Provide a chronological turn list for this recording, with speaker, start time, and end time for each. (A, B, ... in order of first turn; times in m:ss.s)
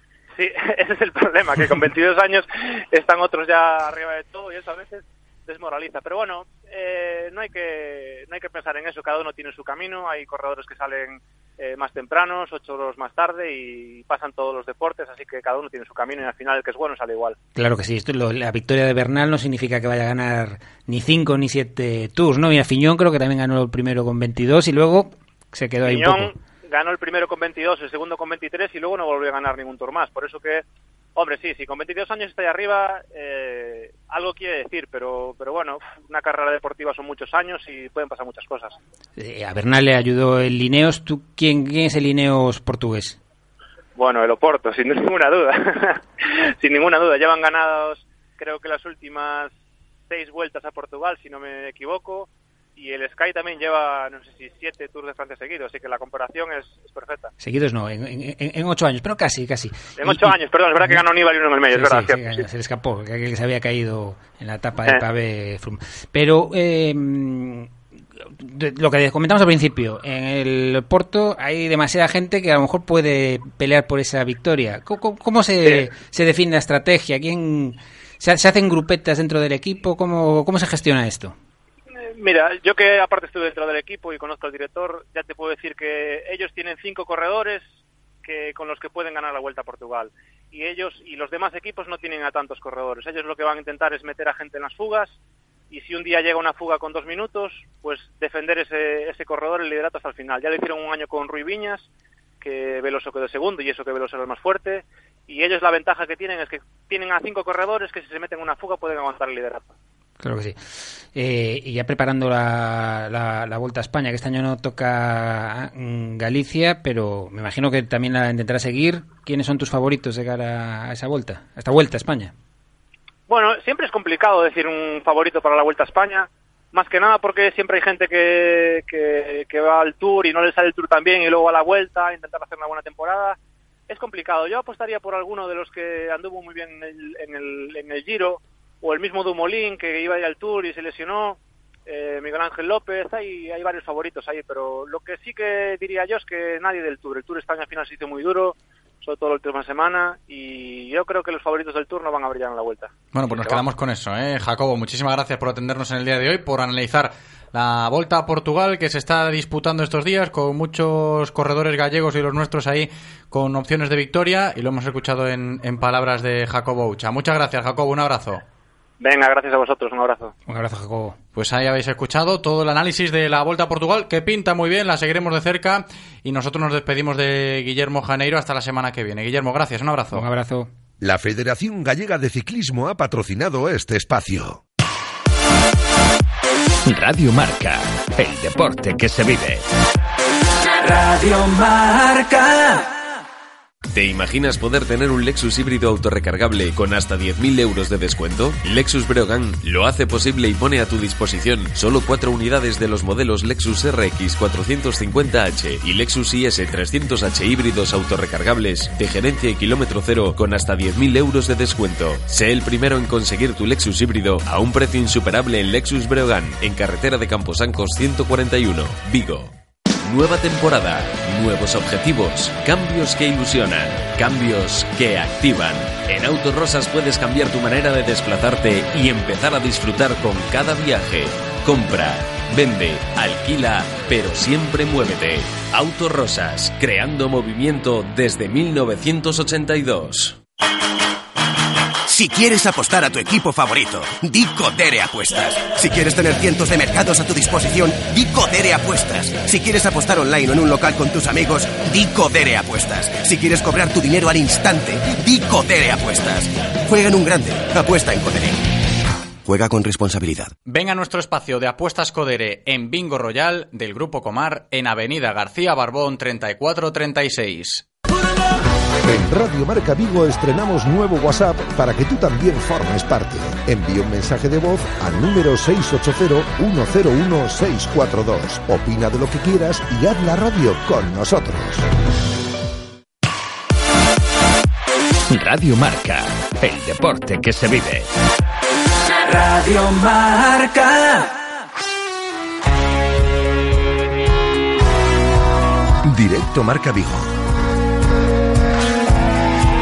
0:00.4-0:17.4 A
0:17.6-0:26.4 B
0:25.8-0:30.6 A
0:31.2-0:38.8 A
0:39.2-0:43.2 B
0:44.0-0:49.5 A
0:50.1-0:57.3 A
0:57.4-1:01.1 B
1:00.0-1:02.5 A
1:01.7-1:07.7 B
1:08.4-1:21.3 B
1:22.2-1:27.7 A
1:28.2-1:35.2 A
1:35.7-1:41.9 A
1:42.4-1:49.7 A
1:50.2-2:02.3 B
2:03.3-2:13.4 A
2:13.9-2:33.6 A
2:33.1-2:48.4 C
2:49.0-2:50.3 A
2:50.5-2:51.2 B
2:51.4-3:00.3 C
3:00.1-3:00.7 B
3:01.0-3:04.6 D
3:06.9-3:09.6 E
3:10.8-3:12.8 F
3:13.9-3:39.5 G
3:40.0-4:00.4 G
4:02.1-4:18.6 H
4:19.5-4:20.5 H
4:20.7-4:27.8 C
4:29.0-4:41.8 D
4:45.3-4:48.1 E
4:49.2-4:51.3 F
4:56.1-4:57.3 D